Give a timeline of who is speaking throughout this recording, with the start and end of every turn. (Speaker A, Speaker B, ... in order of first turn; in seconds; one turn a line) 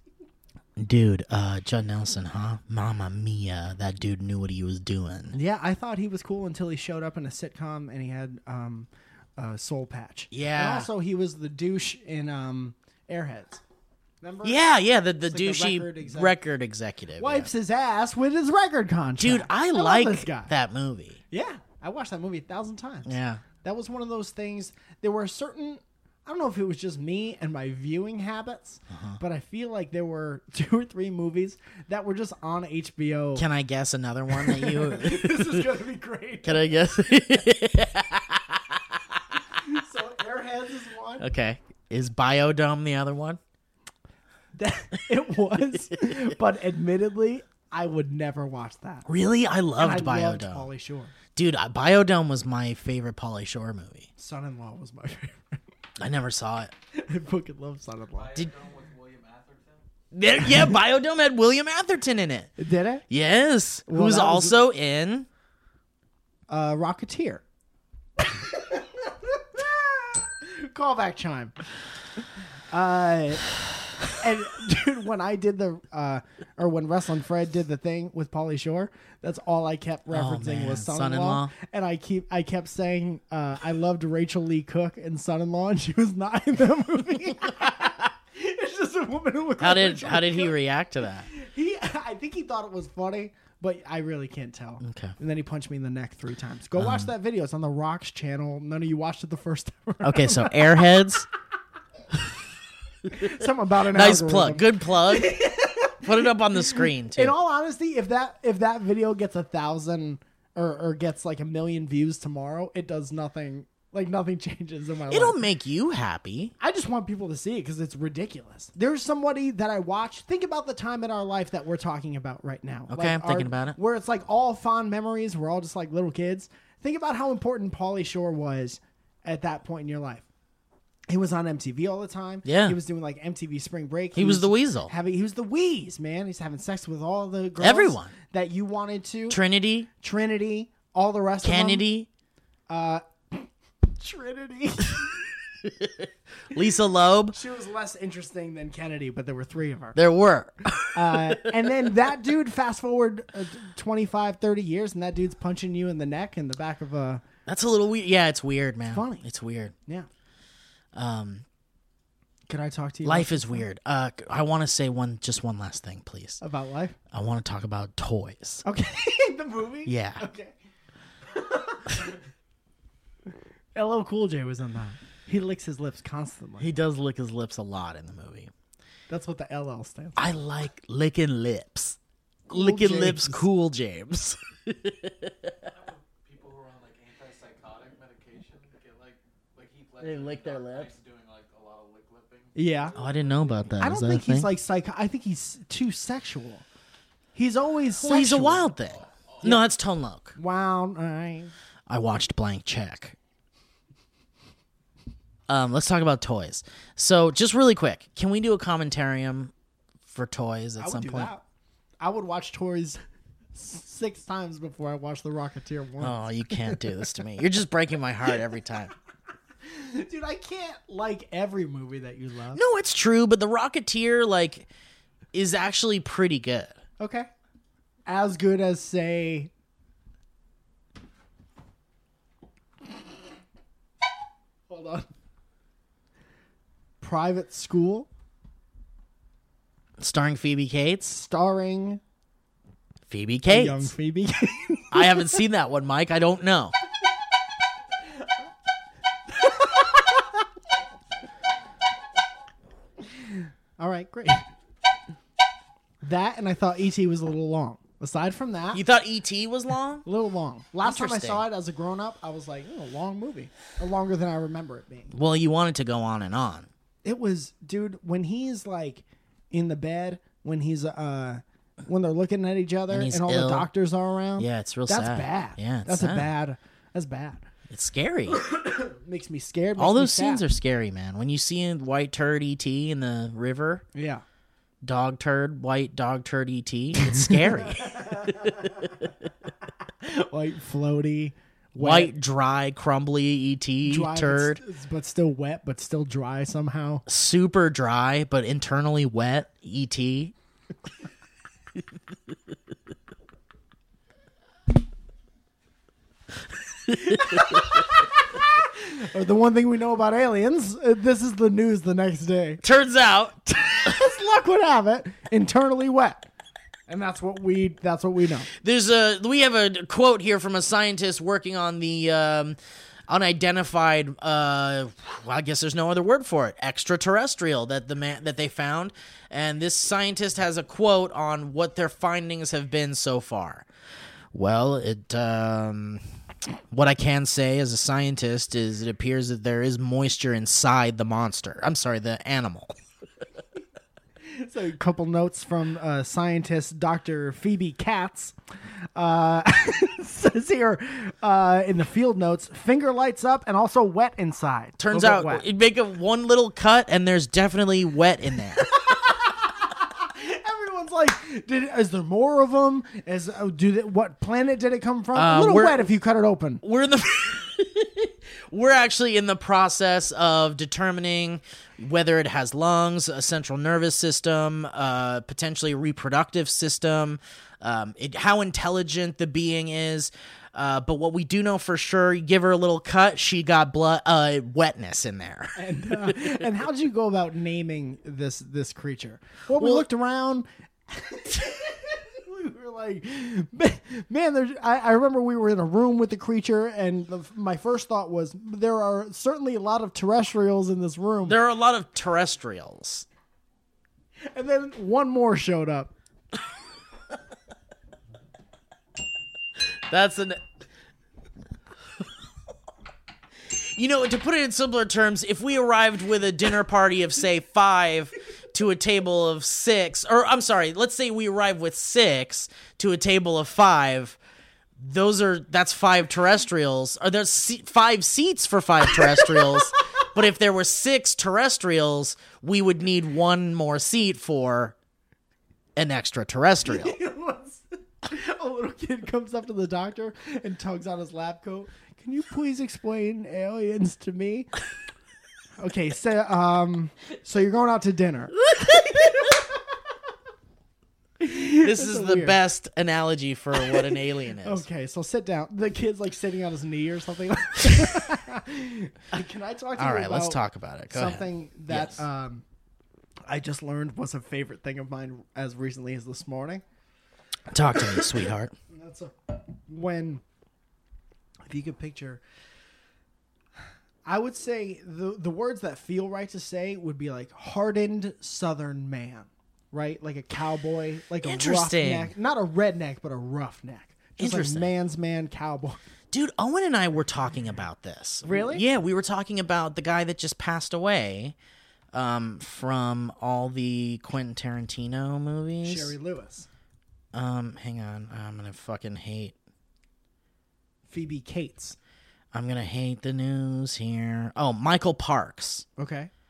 Speaker A: 0.8-5.4
Speaker B: 5.3-13.6
Speaker A: 10.3-10.9
Speaker B: 14.2-14.6
Speaker A: 14.4-17.5
Speaker B: 15.3-16.4
Speaker B: 17.2-20.5
Speaker A: 19.2-21.2
Speaker B: 21.3-33.5
Speaker A: 23.1-23.4
Speaker A: 28.9-29.2
Speaker A: 33.4-35.8
Speaker B: 34.3-36.7
Speaker A: 36.4-39.0
Speaker B: 39.6-41.3
Speaker A: 41.2-43.4
Speaker B: 44.5-49.1
Speaker A: 49.1-50.7
Speaker B: 49.8-51.1
Speaker A: 51.4-54.1
Speaker B: 54.2-55.6
Speaker A: 56.0-56.7
Speaker B: 56.9-58.4
Speaker C: 58.1-59.8
Speaker A: 60.1-62.5
Speaker B: 62.6-63.0
Speaker A: 63.1-65.3
Speaker B: 63.9-64.6
Speaker B: 66.5-67.4
Speaker B: 68.2-71.5
Speaker B: 72.7-73.5
Speaker B: 74.1-90.5
Speaker A: 80.1-81.5
Speaker A: 87.6-87.9
Speaker A: 89.6-91.3
Speaker B: 91.3-100.8
Speaker A: 94.8-95.2
Speaker A: 96.8-97.1
Speaker A: 100.0-101.3
Speaker B: 103.1-115.4
Speaker A: 103.1-107.3
Speaker A: 115.1-116.5
Speaker B: 116.6-130.3
Speaker A: 122.9-123.8
Speaker B: 131.1-139.4
Speaker A: 132.4-132.8
Speaker A: 134.1-134.9
Speaker A: 137.6-138.1
Speaker A: 139.3-139.9
Speaker B: 140.0-141.9
Speaker A: 141.4-142.1
Speaker B: 142.7-145.2
Speaker A: 145.6-147.4
Speaker B: 147.3-150.0
Speaker A: 149.9-151.7
Speaker B: 150.9-157.2
Speaker A: 157.5-159.7
Speaker B: 158.9-159.2
Speaker A: 160.9-161.4
Speaker B: 162.5-163.7
Speaker A: 163.0-166.4
Speaker B: 166.4-167.0
Speaker A: 167.1-168.7
Speaker B: 168.7-170.6
Speaker A: 169.9-170.2
Speaker B: 171.3-172.2
Speaker B: 173.8-176.7
Speaker A: 176.6-178.5
Speaker B: 179.1-180.2
Speaker A: 180.2-182.0
Speaker B: 182.5-183.5
Speaker A: 182.5-185.7
Speaker C: 185.7-193.7
Speaker A: 190.0-190.9
Speaker B: 192.6-192.9
Speaker A: 193.0-194.5
Speaker B: 193.8-196.7
Speaker B: 197.3-198.7
Speaker A: 198.0-200.3
Speaker C: 198.9-199.4
Speaker B: 200.4-201.5
Speaker A: 201.9-203.2
Speaker A: 205.5-209.5
Speaker A: 210.1-211.3
Speaker B: 210.8-211.4
Speaker B: 212.0-213.0
Speaker B: 213.5-216.8
Speaker A: 216.0-218.9
Speaker B: 219.7-222.6
Speaker A: 222.5-224.7
Speaker A: 225.3-226.8
Speaker B: 227.0-227.3
Speaker B: 228.1-229.5
Speaker B: 234.7-235.1
Speaker B: 237.0-238.1
Speaker A: 240.0-241.2
Speaker B: 241.1-242.0
Speaker A: 243.1-243.9
Speaker B: 243.5-245.4
Speaker A: 244.9-246.7
Speaker B: 249.4-250.4
Speaker B: 253.0-254.5
Speaker B: 256.0-258.8
Speaker A: 258.7-260.1
Speaker B: 260.1-265.1
Speaker A: 260.8-261.4
Speaker A: 265.1-266.7
Speaker B: 267.0-277.4
Speaker A: 272.9-273.7
Speaker A: 274.4-276.3
Speaker A: 277.7-278.4
Speaker B: 278.3-280.4
Speaker A: 279.8-283.9
Speaker B: 283.9-284.2
Speaker A: 284.8-289.1
Speaker B: 287.0-288.9
Speaker B: 290.0-292.1
Speaker A: 291.8-294.6
Speaker B: 293.9-297.1
Speaker A: 297.1-300.3
Speaker A: 307.1-307.6
Speaker B: 307.1-312.6
Speaker A: 312.6-313.5
Speaker B: 313.6-316.3
Speaker B: 316.9-318.5
Speaker A: 318.6-322.6
Speaker A: 323.1-333.7
Speaker A: 334.3-336.0
Speaker A: 336.7-342.7
Speaker B: 344.2-348.4
Speaker B: 348.9-355.4
Speaker A: 354.8-358.7
Speaker B: 358.7-366.6
Speaker A: 365.1-365.9
Speaker A: 366.6-386.3
Speaker B: 385.6-401.4
Speaker A: 389.6-389.9
Speaker A: 401.3-403.1
Speaker B: 404.3-405.9
Speaker A: 409.9-410.4
Speaker A: 413.5-424.2
Speaker A: 424.8-434.8
Speaker A: 435.8-437.0
Speaker B: 436.7-444.5
Speaker B: 445.6-449.4
Speaker B: 451.2-452.4
Speaker A: 451.6-454.7
Speaker B: 454.4-462.4
Speaker A: 459.8-462.0
Speaker B: 463.3-466.6
Speaker A: 467.5-468.5
Speaker B: 467.9-468.2
Speaker B: 468.7-470.2
Speaker B: 471.5-472.2
Speaker B: 474.1-485.8
Speaker A: 481.2-482.1
Speaker A: 484.2-484.7
Speaker A: 486.1-491.4
Speaker B: 488.2-488.6
Speaker A: 491.9-495.9
Speaker B: 495.6-496.5
Speaker A: 497.1-499.4
Speaker B: 500.9-501.8
Speaker A: 502.3-505.7
Speaker B: 505.8-506.1